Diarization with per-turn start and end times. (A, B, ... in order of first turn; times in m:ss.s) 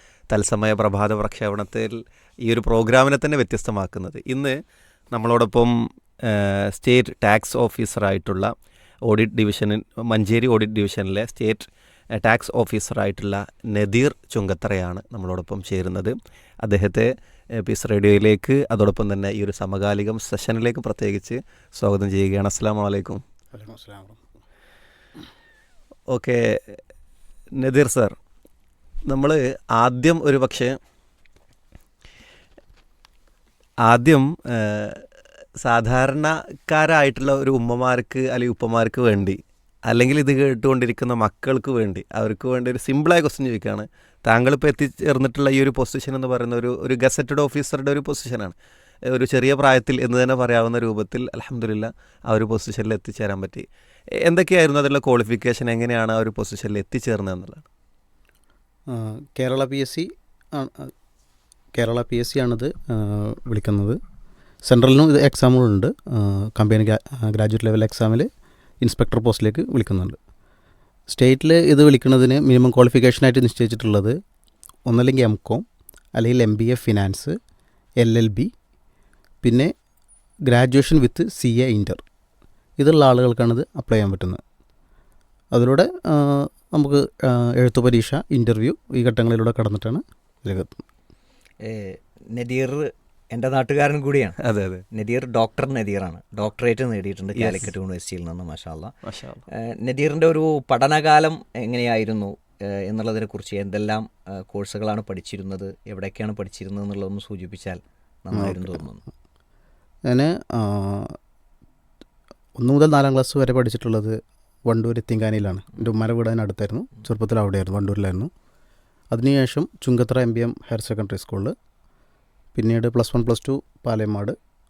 0:00.3-0:04.6 A
0:05.1-0:08.5 A
0:09.1-0:23.2 A
0:23.5-0:24.2 B
0:26.1-0:26.8 A
0:27.6-0:28.2 A
0:29.1-0:30.8 A
0:33.8-0:35.0 A
0:35.6-0:48.6 A
0:49.1-0:53.7 A
0:54.2-0:57.6 A
0:58.9-1:00.9 B
1:01.8-1:04.0 B
1:04.7-1:08.3 B
1:08.8-1:10.2 B
1:11.1-1:14.2 B
1:14.9-1:15.6 B
1:16.2-1:17.4 B
1:18.0-1:18.5 B
1:19.4-1:19.7 B
1:20.5-1:22.0 B
1:22.8-1:24.4 B
1:25.5-1:30.8 B
1:31.6-1:34.4 C
1:34.4-1:34.8 A
1:34.9-1:38.9 C
1:37.4-1:37.7 A
1:39.0-1:39.4 A
1:39.5-1:49.0 C
1:48.3-1:48.8 B
1:50.1-1:51.2 B
1:52.6-1:58.3 B
1:59.1-2:01.6 B
2:02.6-2:04.4 B